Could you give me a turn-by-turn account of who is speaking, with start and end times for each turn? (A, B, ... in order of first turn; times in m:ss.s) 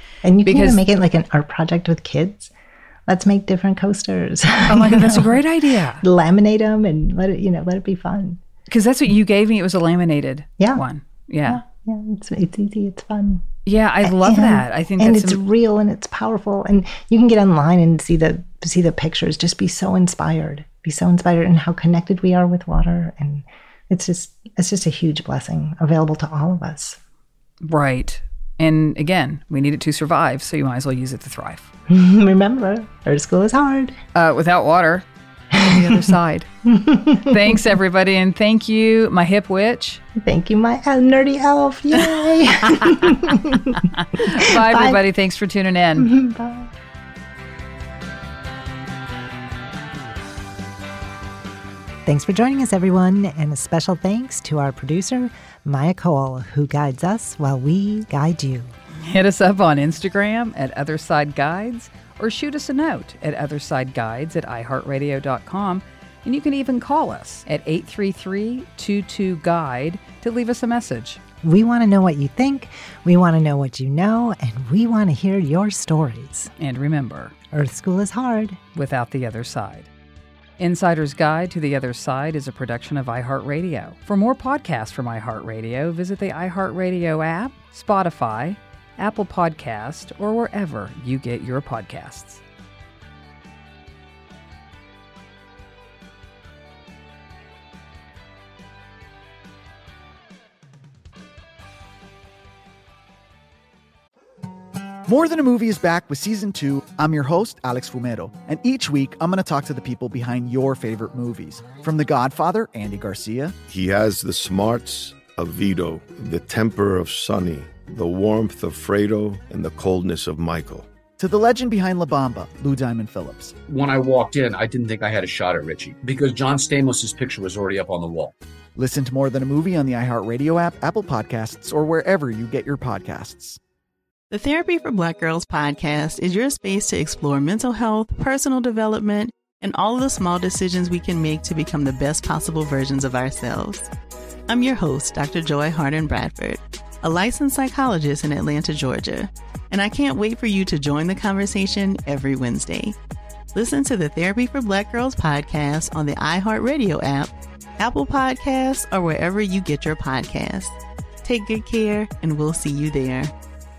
0:00.2-0:02.5 A
0:00.4-0:00.8 B
0:03.1-0:05.4 A
0:04.7-0:06.0 B
0:06.0-0:08.4 A
0:08.7-0:11.6 B
0:10.6-0:10.8 A
0:11.5-0:13.4 A
0:13.6-0:15.4 B
0:14.0-0:27.0 A
0:27.6-0:31.7 B
0:31.9-0:34.0 A
0:34.1-0:36.5 B
0:35.6-0:36.0 A
0:36.6-0:37.6 A
0:37.3-0:40.0 B
0:40.2-0:45.0 A
0:42.7-0:43.1 B
0:43.9-0:46.1 B
0:46.0-0:46.7 A
0:52.0-0:58.7 A
0:59.0-1:11.2 B
1:11.4-1:16.5 A
1:16.6-1:17.3 B
1:17.5-1:18.6 A
1:18.7-1:19.9 B
1:20.6-1:32.4 B
1:45.1-1:53.5 C
1:53.6-2:00.9 D
2:01.2-2:03.5 C
2:03.7-2:08.3 E
2:08.8-2:13.6 C
2:14.3-2:23.9 F
2:24.5-2:33.0 F
2:33.5-2:43.3 F